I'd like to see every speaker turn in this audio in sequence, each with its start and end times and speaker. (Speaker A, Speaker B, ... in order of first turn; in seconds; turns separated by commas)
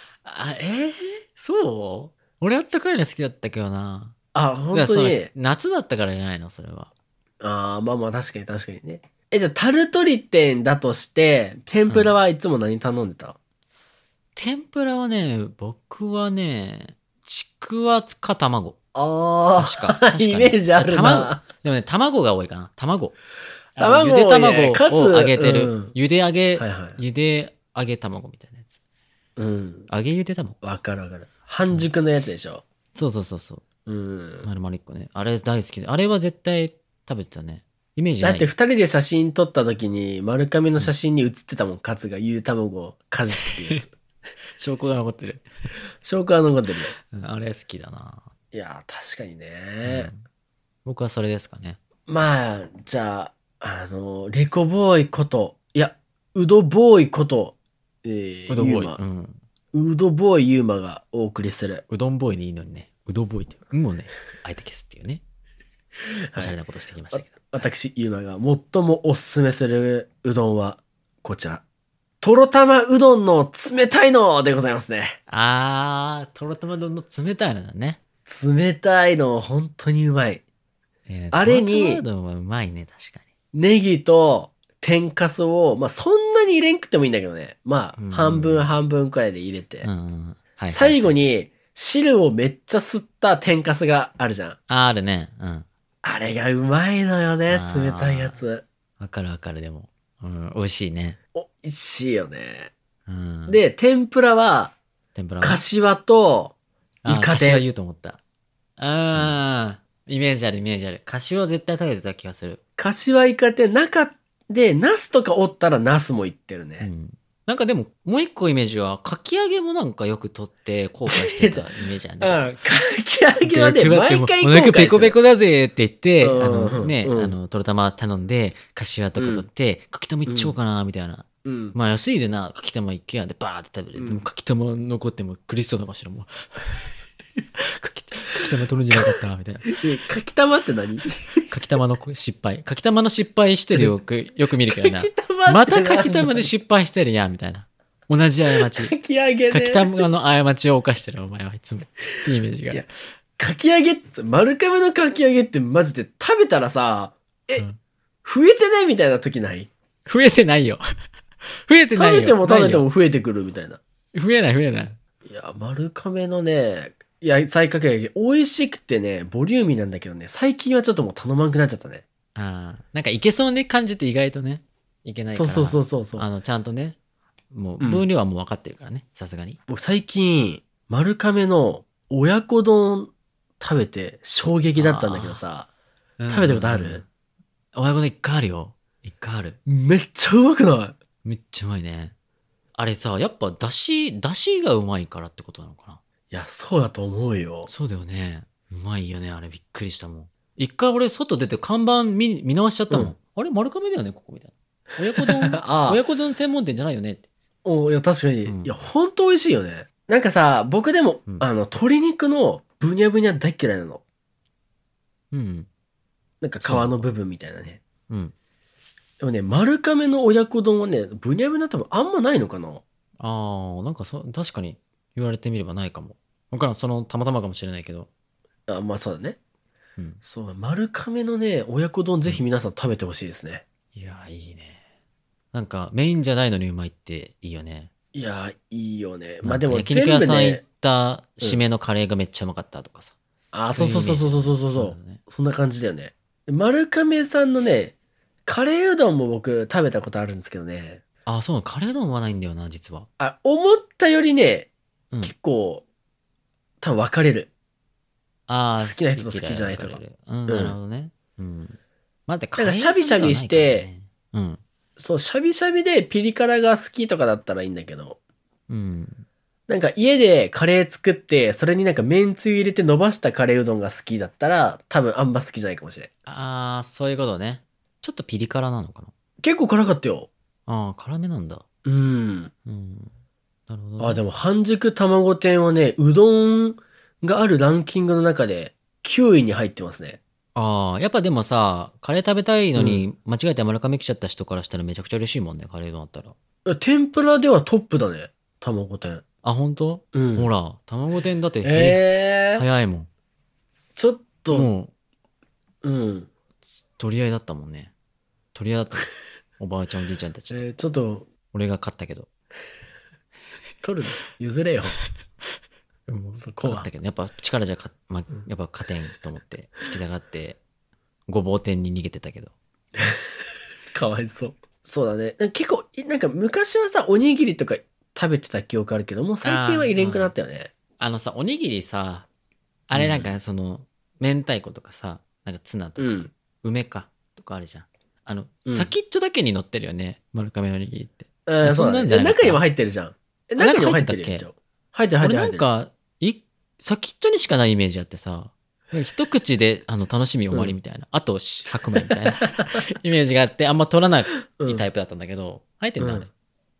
Speaker A: 0.2-4.2, Speaker B: 4.3-5.3, Speaker A: 4.7-6.9, Speaker B: 7.4-13.3, Speaker A: 11.9-12.1, Speaker A: 14.3-18.8, Speaker B: 18.9-21.4, Speaker A: 19.6-23.1, Speaker A: 23.8-28.8, Speaker B: 23.8-25.9, Speaker B: 26.6-27.0, Speaker B: 29.4-29.9, Speaker A: 29.9-30.6, Speaker B: 30.6-32.6, Speaker A: 32.9-33.6, Speaker B: 33.9-34.5, Speaker A: 34.4-38.5, Speaker B: 38.2-43.9, Speaker A: 43.4-43.8, Speaker A: 44.6-45.5, Speaker B: 46.0-46.9, Speaker A: 47.1-48.3, Speaker B: 48.5-50.1, Speaker A: 49.8-50.2, Speaker A: 50.8-51.8, Speaker B: 52.1-59.0, Speaker A: 58.5-59.4, Speaker B: 59.7-61.8, Speaker A: 61.9-65.2, Speaker A: 66.3-67.7, Speaker B: 67.1-71.6, Speaker B: 72.2-75.2, Speaker A: 75.3-78.0, Speaker B: 78.3-80.4, Speaker A: 81.1-83.3, Speaker B: 81.3-82.0, Speaker B: 83.5-89.9, Speaker A: 88.0-88.7, Speaker A: 89.8-91.1, Speaker B: 90.7-94.6, Speaker A: 94.7-95.7, Speaker B: 96.0-98.6, Speaker A: 97.5-98.4, Speaker A: 99.0-101.2, Speaker B: 101.3-102.7, Speaker A: 103.1-103.6, Speaker B: 103.5-104.7, Speaker A: 105.1-105.6, Speaker B: 105.4-106.5, Speaker A: 107.0-108.2, Speaker B: 107.0-107.6, Speaker A: 108.8-112.6, Speaker B: 112.8-116.9, Speaker A: 116.8-122.4, Speaker B: 121.0-121.7, Speaker B: 122.2-125.2, Speaker A: 123.4-136.8, Speaker B: 126.2-127.3, Speaker B: 129.2-129.5, Speaker B: 130.3-130.5, Speaker B: 131.4-131.8, Speaker B: 133.9-134.2, Speaker A: 137.6-139.8, Speaker B: 139.7-141.4, Speaker A: 141.4-148.9, Speaker B: 144.7-146.5, Speaker B: 148.6-149.9, Speaker A: 149.5-152.8, Speaker B: 153.4-157.7, Speaker B: 158.2-159.7, Speaker A: 160.1-160.8, Speaker A: 161.7-162.9, Speaker B: 161.9-163.8, Speaker A: 164.1-165.0, Speaker B: 165.2-172.0, Speaker A: 172.3-177.0, Speaker B: 175.3-176.2, Speaker A: 177.5-179.6, Speaker B: 177.8-178.1, Speaker B: 179.7-185.7, Speaker A: 184.8-185.4, Speaker A: 186.2-187.0, Speaker B: 186.3-187.0, Speaker A: 187.7-189.6, Speaker B: 189.7-190.9, Speaker A: 191.2-192.1, Speaker A: 192.7-196.0, Speaker B: 196.3-197.7, Speaker A: 197.7-207.2, Speaker B: 205.2-206.0, Speaker B: 207.6-214.0, Speaker A: 208.4-208.8, Speaker A: 215.3-215.7, Speaker B: 216.4-217.8, Speaker A: 216.6-217.1, Speaker A: 218.1-218.3, Speaker B: 219.2-222.8, Speaker A: 223.2-228.1, Speaker B: 228.7-229.4, Speaker B: 230.2-233.6, Speaker A: 233.9-234.8, Speaker A: 235.5-237.9, Speaker B: 238.1-240.6, Speaker A: 239.4-243.1, Speaker B: 243.5-247.9, Speaker A: 243.7-245.2, Speaker B: 248.4-251.0, Speaker A: 251.2-253.1, Speaker B: 253.2-254.7, Speaker B: 255.2-255.8, Speaker B: 256.8-257.5, Speaker A: 258.5-264.6, Speaker B: 258.8-260.8, Speaker B: 262.6-263.9, Speaker B: 265.0-268.2, Speaker A: 268.7-269.2, Speaker B: 269.7-276.1, Speaker A: 276.3-279.1, Speaker B: 279.4-280.3, Speaker A: 280.7-281.6, Speaker B: 281.8-282.5, Speaker A: 282.6-283.1, Speaker A: 283.7-284.2, Speaker B: 284.0-290.2, Speaker A: 290.5-296.3, Speaker B: 292.8-293.0, Speaker B: 296.6-299.2, Speaker A: 299.4-303.1, Speaker B: 300.1-300.5, Speaker B: 301.6-302.6, Speaker B: 303.9-304.7, Speaker A: 304.5-304.9, Speaker B: 305.8-306.3, Speaker A: 306.7-307.9, Speaker A: 308.5-310.7, Speaker B: 310.5-311.3, Speaker A: 311.5-312.3, Speaker B: 313.8-315.0, Speaker A: 316.1-320.6, Speaker B: 316.4-316.9, Speaker A: 321.3-322.5, Speaker B: 323.9-330.7, Speaker A: 329.4-330.3, Speaker A: 331.0-332.3, Speaker A: 332.9-342.6, Speaker B: 332.9-333.3, Speaker B: 336.0-336.3, Speaker B: 338.6-338.9, Speaker B: 341.4-345.6, Speaker A: 343.6-344.5, Speaker A: 345.2-356.3, Speaker B: 354.6-354.8, Speaker B: 356.0-356.3